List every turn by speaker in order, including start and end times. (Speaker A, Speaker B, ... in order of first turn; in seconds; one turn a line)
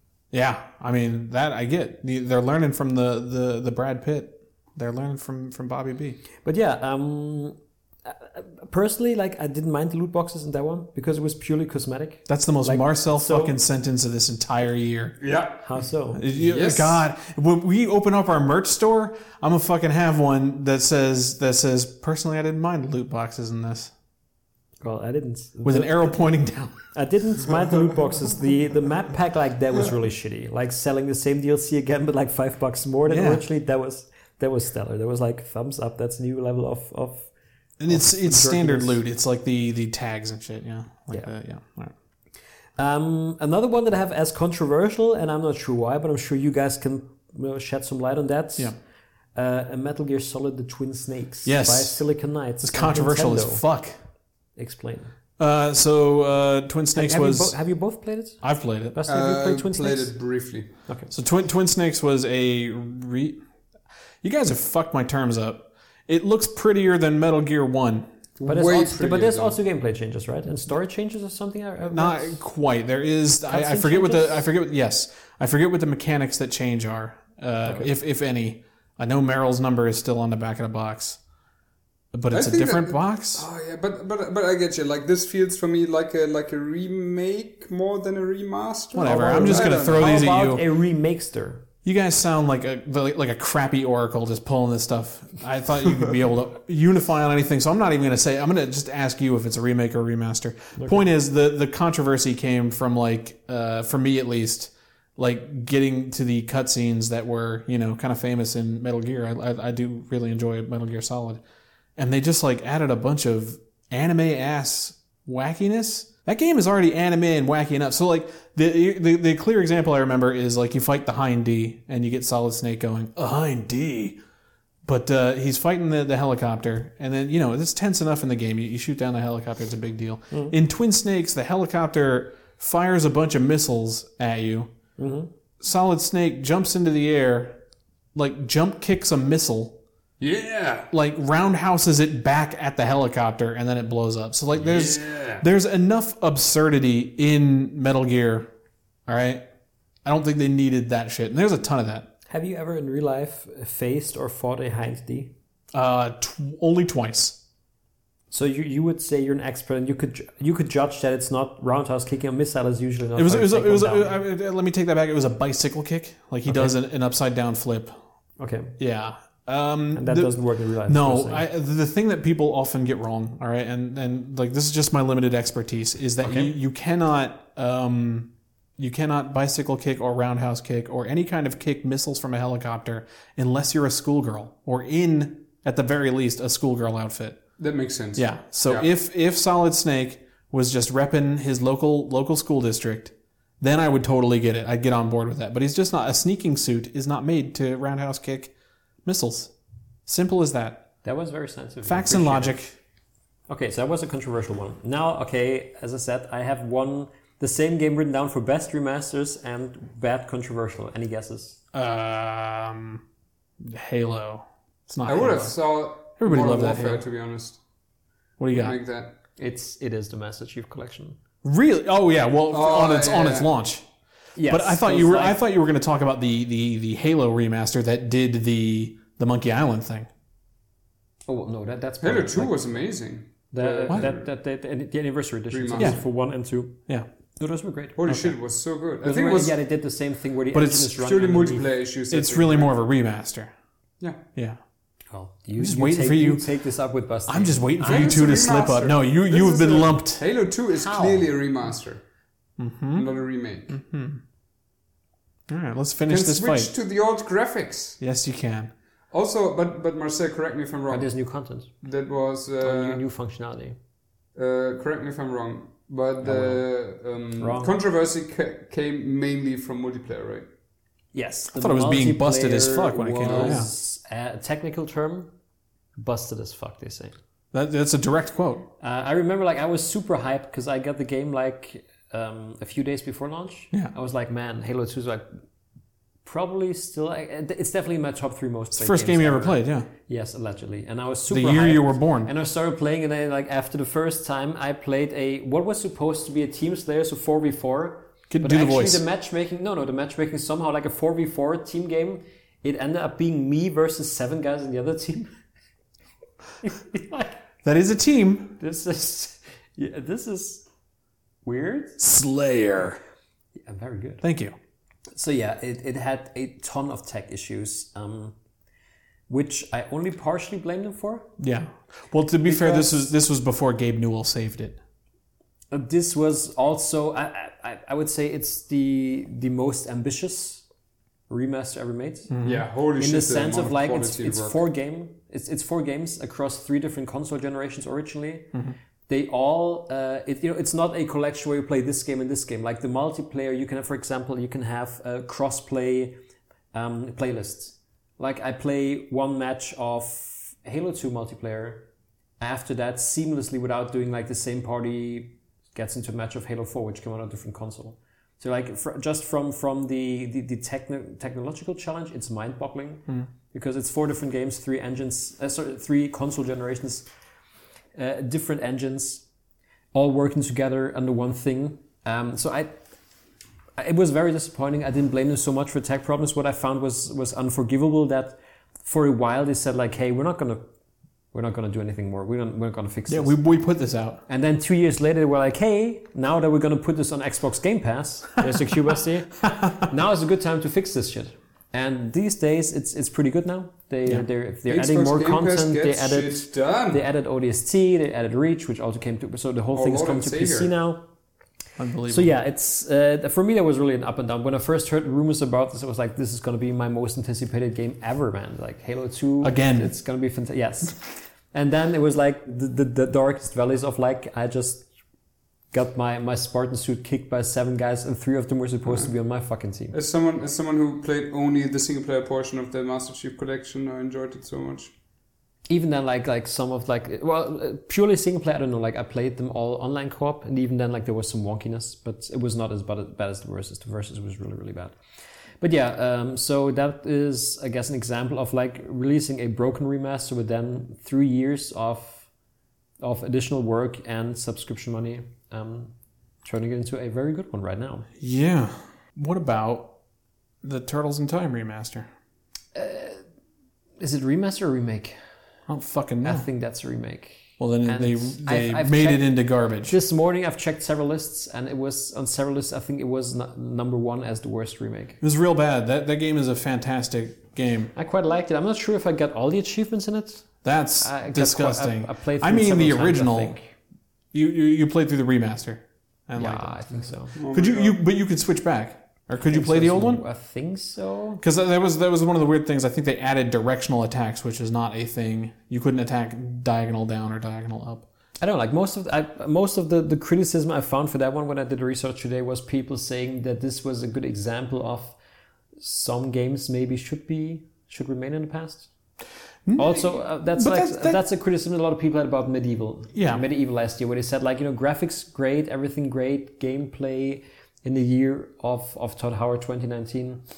Speaker A: 0.3-6.2
Speaker B: 6.4-13.6
Speaker A: 12.3-15.2
Speaker C: 15.2-15.8
Speaker B: 15.6-16.3
Speaker A: 16.1-23.9
Speaker C: 16.4-17.0
Speaker B: 24.8-26.1
Speaker A: 25.6-26.8
Speaker B: 26.9-37.3
Speaker A: 33.1-33.4
Speaker A: 37.8-41.9
Speaker B: 37.9-39.0
Speaker B: 42.8-48.7
Speaker B: 49.3-53.6
Speaker A: 51.4-54.0
Speaker B: 54.5-55.1
Speaker A: 55.4-57.6
Speaker B: 56.9-60.1
Speaker A: 58.4-59.0
Speaker C: 59.1-60.7
Speaker B: 60.9-61.1
Speaker A: 61.1-63.4
Speaker A: 64.2-68.1
Speaker C: 68.4-69.6
Speaker B: 68.4-72.4
Speaker A: 71.9-81.2
Speaker B: 73.5-74.5
Speaker B: 77.6-77.9
Speaker A: 82.1-83.5
Speaker C: 82.3-90.2
Speaker A: 88.9-90.6
Speaker B: 89.0-91.6
Speaker A: 91.8-111.4
Speaker B: 100.8-101.0
Speaker A: 112.0-124.2
Speaker A: 124.8-134.7
Speaker B: 135.0-135.3
Speaker A: 135.6-137.6
Speaker A: 138.1-139.8
Speaker C: 140.2-140.9
Speaker A: 140.9-148.5
Speaker C: 144.5-145.4
Speaker A: 149.1-149.4
Speaker A: 150.0-152.1
Speaker B: 152.3-155.3
Speaker A: 155.7-157.4
Speaker B: 158.3-164.2
Speaker A: 163.2-167.9
Speaker B: 166.4-166.8
Speaker B: 168.4-168.8
Speaker A: 168.8-187.4
Speaker B: 169.9-171.5
Speaker B: 176.2-176.5
Speaker C: 187.6-188.9
Speaker A: 188.1-198.5
Speaker A: 199.0-199.5
Speaker A: 200.1-200.9
Speaker B: 201.0-202.6
Speaker A: 201.8-202.8
Speaker B: 203.5-211.6
Speaker A: 211.7-213.0
Speaker A: 213.6-215.5
Speaker C: 215.0-217.6
Speaker A: 216.2-217.0
Speaker A: 218.4-218.8
Speaker C: 218.5-219.1
Speaker B: 219.4-221.2
Speaker A: 221.4-223.9
Speaker C: 222.5-223.5
Speaker B: 224.3-225.4
Speaker A: 224.4-230.1
Speaker B: 231.3-232.7
Speaker C: 232.0-234.3
Speaker B: 233.5-236.8
Speaker C: 235.5-236.0
Speaker B: 237.4-238.0
Speaker C: 237.9-239.6
Speaker A: 238.1-238.3
Speaker B: 239.0-241.7
Speaker A: 240.5-240.9
Speaker C: 240.9-242.7
Speaker A: 242.1-243.5
Speaker A: 244.3-244.6
Speaker B: 245.1-248.2
Speaker A: 245.6-246.5
Speaker A: 247.3-250.2
Speaker C: 247.8-252.0
Speaker B: 250.7-251.3
Speaker A: 252.6-253.1
Speaker C: 252.9-253.8
Speaker A: 253.7-254.2
Speaker A: 255.5-256.7
Speaker C: 256.1-258.0
Speaker A: 258.0-258.7
Speaker C: 259.1-261.1
Speaker B: 260.9-261.7
Speaker C: 261.8-263.0
Speaker B: 262.6-263.8
Speaker C: 264.4-270.5
Speaker B: 266.2-266.6
Speaker B: 267.4-267.8
Speaker B: 271.1-275.3
Speaker A: 271.5-273.7
Speaker C: 273.2-273.6
Speaker B: 276.0-277.1
Speaker A: 277.5-278.7
Speaker B: 278.8-285.3
Speaker B: 286.2-305.3
Speaker A: 288.7-289.9
Speaker A: 291.3-292.3
Speaker A: 298.3-299.0
Speaker B: 306.6-307.4
Speaker A: 307.6-308.6
Speaker B: 308.6-310.6
Speaker B: 311.4-312.0
Speaker A: 312.0-313.0
Speaker B: 313.6-314.2
Speaker A: 314.2-314.5
Speaker B: 315.1-318.4
Speaker B: 319.3-321.3
Speaker A: 321.4-324.8
Speaker B: 322.4-323.0
Speaker B: 325.7-330.6
Speaker B: 331.3-332.3
Speaker A: 332.3-332.6
Speaker C: 332.4-334.6
Speaker B: 332.9-338.5
Speaker B: 339.1-346.2
Speaker B: 346.7-351.9
Speaker B: 352.4-367.1
Speaker B: 367.9-369.2
Speaker B: 369.9-372.7
Speaker B: 373.8-380.6
Speaker B: 381.3-383.4
Speaker A: 383.1-384.2
Speaker B: 384.3-401.1
Speaker A: 389.5-389.7
Speaker C: 394.7-397.0
Speaker C: 399.7-400.7
Speaker A: 401.8-402.3
Speaker B: 402.1-414.9
Speaker A: 409.4-409.9
Speaker B: 415.7-419.9
Speaker C: 419.9-424.9
Speaker B: 425.7-435.0
Speaker B: 435.6-442.3
Speaker B: 443.0-448.1
Speaker A: 448.2-449.9
Speaker A: 450.6-452.1
Speaker B: 452.7-453.2
Speaker B: 454.0-455.2
Speaker A: 455.7-456.5
Speaker B: 456.2-459.3
Speaker A: 457.6-459.9
Speaker B: 459.9-465.2
Speaker A: 465.2-467.9
Speaker B: 467.9-470.5
Speaker A: 470.6-473.6
Speaker B: 471.0-473.7
Speaker A: 474.3-480.2
Speaker B: 476.4-477.4
Speaker C: 477.3-478.0
Speaker B: 479.4-481.4
Speaker A: 481.4-488.1
Speaker B: 488.4-495.1
Speaker B: 495.8-498.9
Speaker A: 499.6-501.2
Speaker B: 499.8-510.4
Speaker A: 503.1-503.4